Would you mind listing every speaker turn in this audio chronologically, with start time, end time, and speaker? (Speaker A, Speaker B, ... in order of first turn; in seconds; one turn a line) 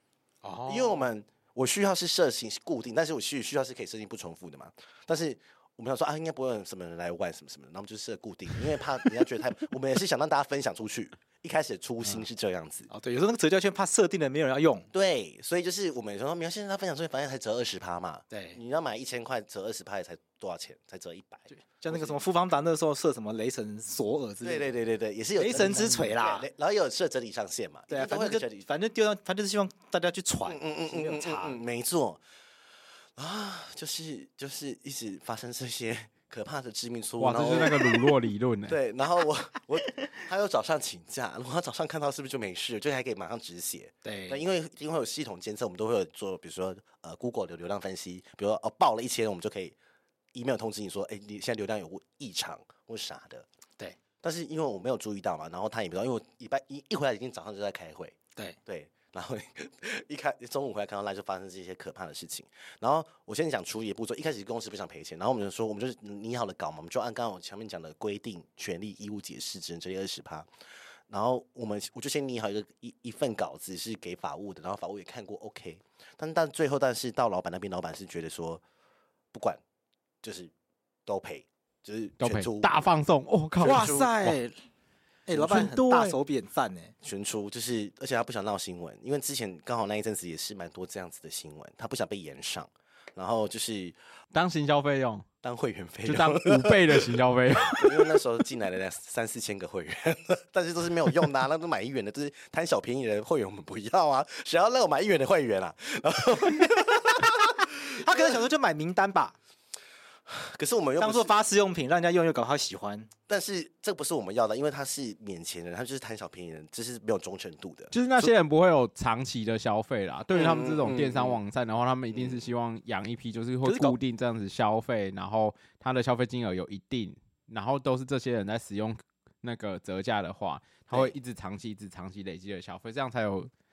Speaker A: 0.4-1.1
Speaker B: 0.7-12.9
Speaker A: 12.9-14.9
Speaker B: 14.9-22.2
Speaker A: 18.3-18.6
Speaker A: 21.5-24.8
Speaker B: 24.4-28.7
Speaker A: 25.4-26.5
Speaker A: 27.9-31.6
Speaker B: 30.5-32.2
Speaker B: 33.2-38.1
Speaker C: 37.2-38.8
Speaker B: 38.7-49.8
Speaker A: 44.0-44.4
Speaker B: 50.3-53.5
Speaker B: 54.2-70.5
Speaker B: 71.1-78.6
Speaker B: 79.3-79.6
Speaker B: 80.2-80.5
Speaker B: 81.1-82.7
Speaker C: 82.2-84.4
Speaker B: 83.6-84.0
Speaker A: 83.6-84.6
Speaker A: 85.3-86.9
Speaker C: 85.4-86.2
Speaker B: 87.0-94.0
Speaker C: 94.3-95.3
Speaker B: 95.4-108.3
Speaker C: 96.0-98.2
Speaker A: 107.9-109.4
Speaker B: 110.3-111.3
Speaker A: 111.0-113.1
Speaker B: 113.3-118.3
Speaker C: 117.9-133.5
Speaker B: 120.3-121.4
Speaker B: 122.1-122.5
Speaker A: 123.7-124.0